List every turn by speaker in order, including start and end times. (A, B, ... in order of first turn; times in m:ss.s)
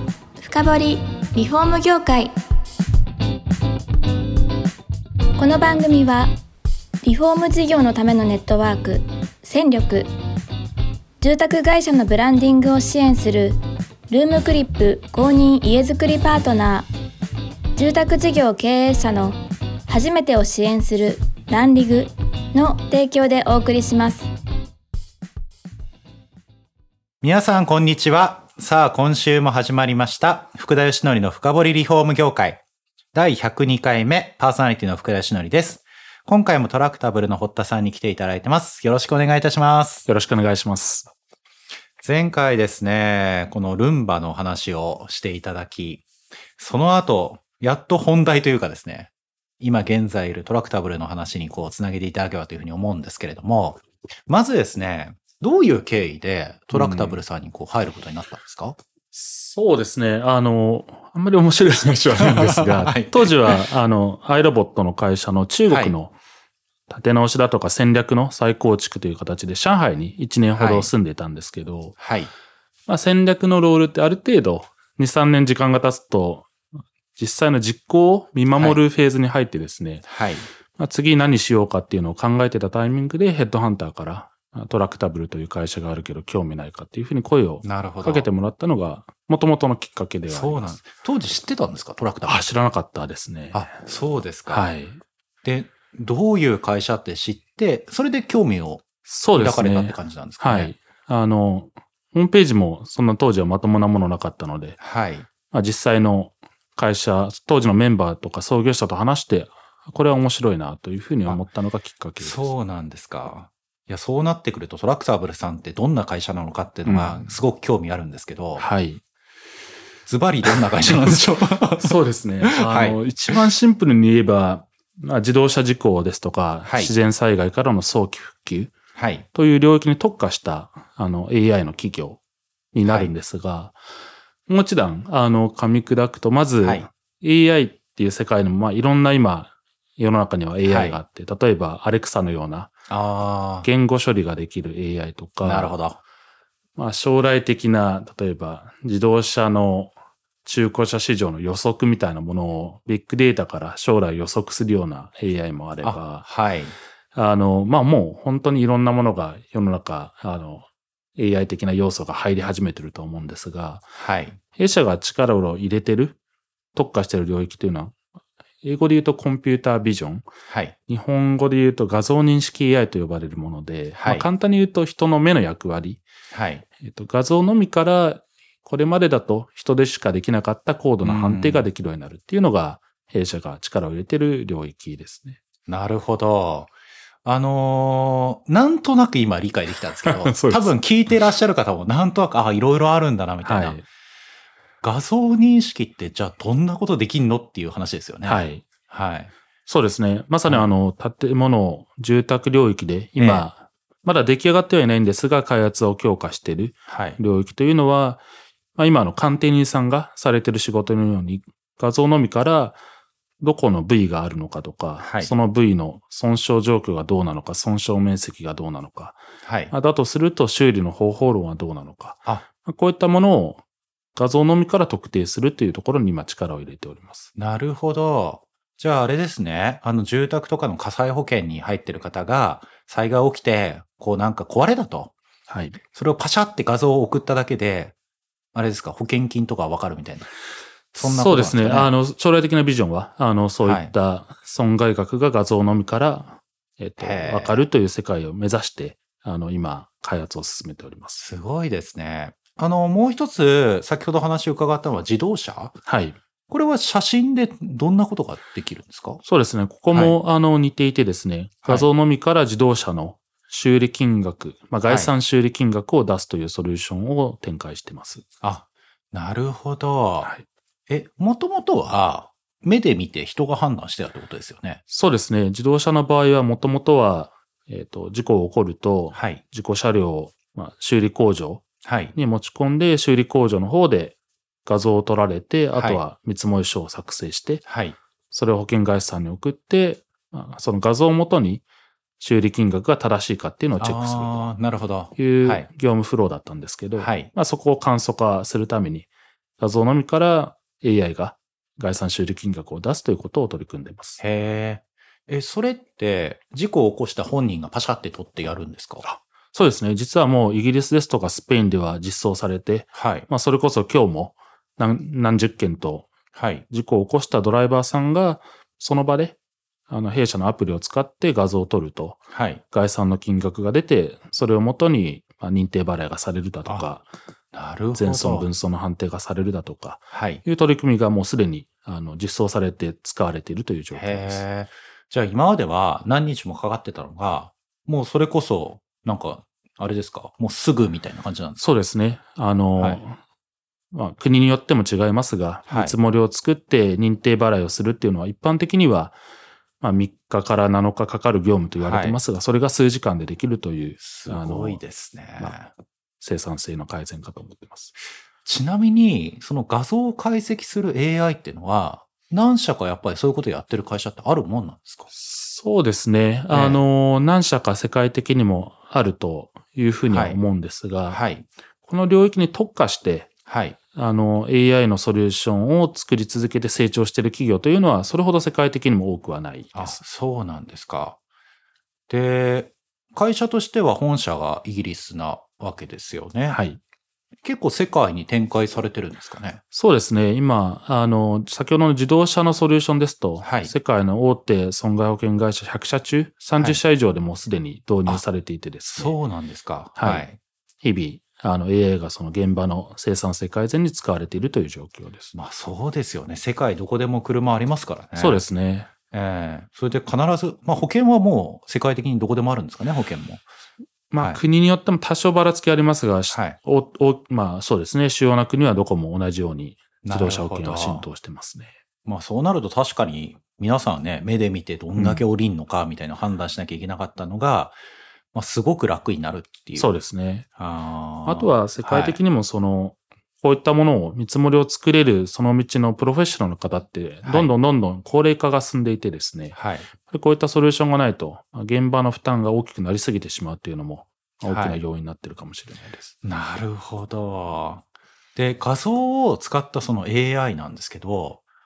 0:00.4-0:02.3 A
0:05.4-0:06.3 A
0:07.0-0:10.1 A
0:11.2-0:16.9 A
0:17.8-0:24.3 A
0:27.2-0:32.6 B
0:33.1-0:40.0 B
0:40.0-0:41.1 C
0:42.0-0:46.0 B
0:46.6-0:58.8 B
0:56.7-0:57.2 C
0:59.1-1:06.2 C
1:02.1-1:03.6 B
1:05.7-1:06.0 B
1:06.9-1:12.0 C
1:10.6-1:10.9 B
1:12.0-1:12.3 B
1:12.9-1:16.5 C
1:17.2-1:20.0 C
1:18.6-1:18.8 B
1:20.0-1:20.5 B
1:20.8-1:30.8 C
1:27.6-1:28.3 B
1:30.2-1:32.5 B
1:32.2-1:33.7 C
1:33.5-1:34.7 B
1:34.5-1:35.0 C
1:35.4-1:40.7 B
1:39.0-1:44.8 C
1:44.8-1:45.3 B
1:45.5-1:52.5 C
1:52.2-1:58.7 B
1:56.8-1:57.3 C
1:58.6-1:59.0 C
2:00.0-2:03.3 B
2:01.8-2:08.7 C
2:06.6-2:06.9 B
2:09.0-2:09.2 B
2:09.3-2:12.2 C
2:12.7-2:13.8 C
2:12.8-2:13.1 B
2:14.5-2:22.7 C
2:16.6-2:16.9 B
2:20.6-2:21.0 B
2:22.9-2:23.7 B
2:23.6-2:25.8 C
2:25.4-2:26.0 B
2:26.8-2:36.2 C
2:35.8-2:36.8 B
2:37.1-2:43.8 C
2:44.0-2:44.4 B
2:44.5-2:46.2 C
2:46.8-2:48.0 C
2:48.6-2:50.3 C
2:50.5-2:50.8 B
2:50.9-2:56.0 C
2:54.0-2:54.3 B
2:56.3-2:56.6 B
2:56.8-3:05.4 C
3:01.0-3:01.7 B
3:05.7-3:06.7 B
3:07.2-3:13.8 B
3:10.0-3:10.8 C
3:13.4-3:13.8 C
3:14.8-3:19.3 B
3:18.2-3:18.6 C
3:19.7-3:28.2 C
3:23.2-3:23.5 B
3:26.9-3:27.2 B
3:28.8-3:32.8 C
3:33.4-3:43.6 C
3:35.0-3:35.3 B
3:39.4-3:39.7 B
3:44.1-3:47.3 C
3:47.4-3:55.1 B
3:55.5-3:55.8 C
3:55.9-3:57.9 B
3:58.5-4:00.3 B
4:00.9-4:01.9 B
4:01.0-4:11.2 C
4:03.6-4:03.9 B
4:07.0-4:07.6 B
4:11.2-4:15.8 B
4:15.8-4:16.2 C
4:16.5-4:19.2 B
4:19.2-4:28.2 C
4:24.9-4:25.1 B
4:28.4-4:30.3 B
4:30.9-4:34.8 B
4:34.9-4:47.6 C
4:39.1-4:39.4 B
4:41.8-4:42.2 B
4:45.8-4:46.0 B
4:47.7-4:48.0 B
4:48.3-4:51.6 C
4:52.2-4:54.4 C
4:53.8-4:55.7 B
4:55.2-5:04.2 C
4:57.0-4:57.3 B
5:04.2-5:09.1 B
5:09.0-5:16.1 C
5:12.9-5:13.3 B
5:16.3-5:16.6 B
5:16.7-5:19.4 C
5:19.9-5:27.1 C
5:22.3-5:22.6 B
5:27.5-5:28.5 B
5:27.9-5:34.4 C
5:30.1-5:30.4 B
5:33.9-5:41.6 B
5:41.6-5:43.2 C
5:43.9-5:49.2 C
5:45.7-5:46.0 B
5:49.8-5:54.8 C
5:51.8-5:52.2 B
5:54.0-5:55.7 B
5:56.2-5:57.9 C
5:58.4-6:05.1 B
6:05.1-6:11.2 C
6:06.5-6:06.8 B
6:10.1-6:10.4 B
6:11.1-6:11.5 B
6:11.8-6:13.3 C
6:13.5-6:13.8 B
6:13.9-6:20.0 C
6:19.7-6:21.2 B
6:22.1-6:26.6 B
6:26.5-6:26.8 C
6:27.4-6:29.6 B
6:29.7-6:39.2 C
6:33.4-6:33.7 B
6:38.9-6:40.4 B
6:40.0-6:40.2 C
6:40.8-6:45.3 C
6:45.3-6:48.4 B
6:48.2-6:48.9 C
6:49.1-6:53.4 B
6:54.1-7:01.7 C
7:00.0-7:01.1 B
7:02.1-7:07.8 B
7:05.0-7:05.2 C
7:08.3-7:09.9 B
7:09.8-7:10.5 C
7:10.6-7:12.2 B
7:11.2-7:26.1 C
7:17.2-7:17.5 B
7:19.5-7:19.9 B
7:24.4-7:24.8 B
7:26.2-7:31.4 B